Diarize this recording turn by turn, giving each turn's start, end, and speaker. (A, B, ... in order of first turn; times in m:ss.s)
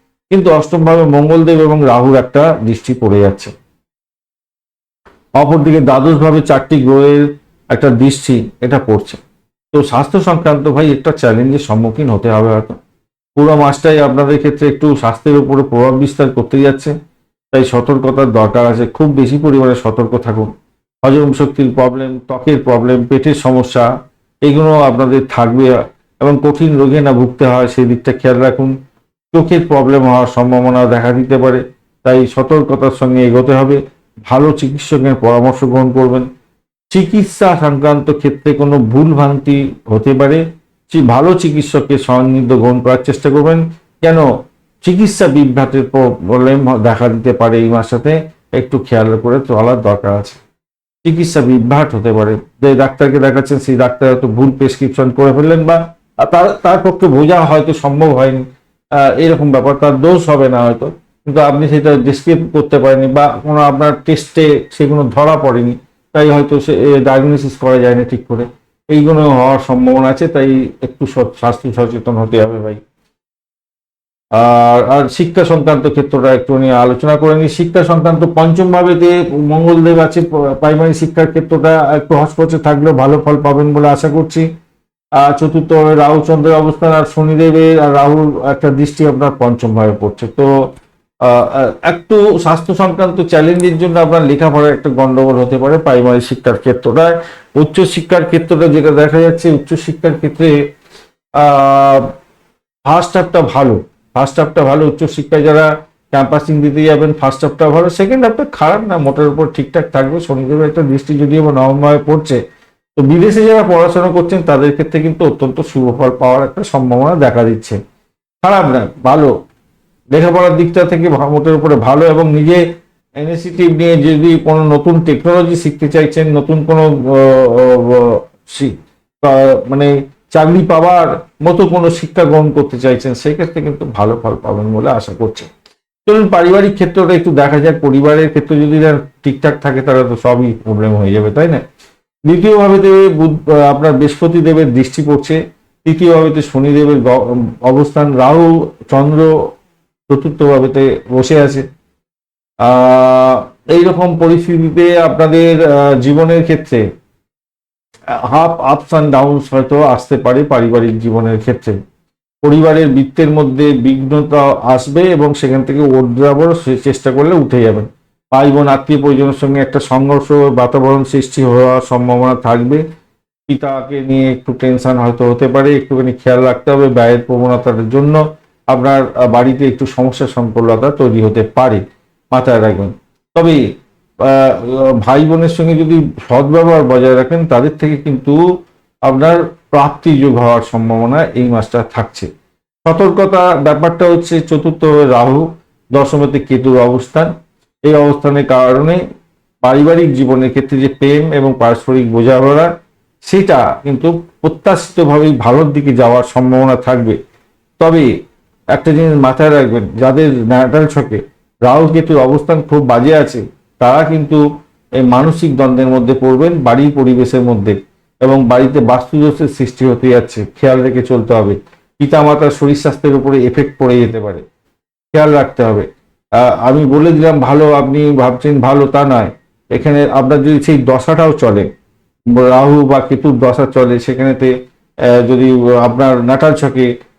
0:00.3-0:03.5 A
0:05.4-0:09.2 A
0:09.7-0:12.8 A
0:13.4-0:16.9 A
0:17.5-0:20.5 A
0:21.0-0:23.9 A
0:24.4-0:28.7 A
0:29.3-0:36.3 A
0:36.9-0:44.3 A
0:44.8-0:50.4 A
0:51.0-0:58.4 A
0:59.0-1:12.8 A
1:14.3-1:24.5 A
1:25.2-1:30.5 A
1:31.2-1:40.5 A
1:41.4-1:42.1 A
1:42.9-1:52.4 A
1:53.0-1:57.8 A
1:58.4-1:59.3 A
2:00.1-2:02.6 A
2:03.2-2:15.5 A
2:16.0-2:21.6 A
2:22.3-2:29.5 A
2:30.1-2:31.6 A
2:32.6-2:36.8 A
2:38.2-2:41.8 A
2:42.4-2:52.8 A
2:53.5-2:58.2 A
2:58.7-3:03.6 A
3:04.2-3:08.4 A
3:09.0-3:12.3 A
3:12.8-3:17.3 A
3:17.8-3:19.0 A
3:19.6-3:22.7 A
3:23.2-3:27.2 A
3:27.8-3:28.1 A
3:28.7-3:34.4 A
3:35.0-3:44.4 A
3:45.1-3:45.8 A
3:46.5-3:51.7 A
3:52.3-3:54.5 A
3:55.1-3:56.9 A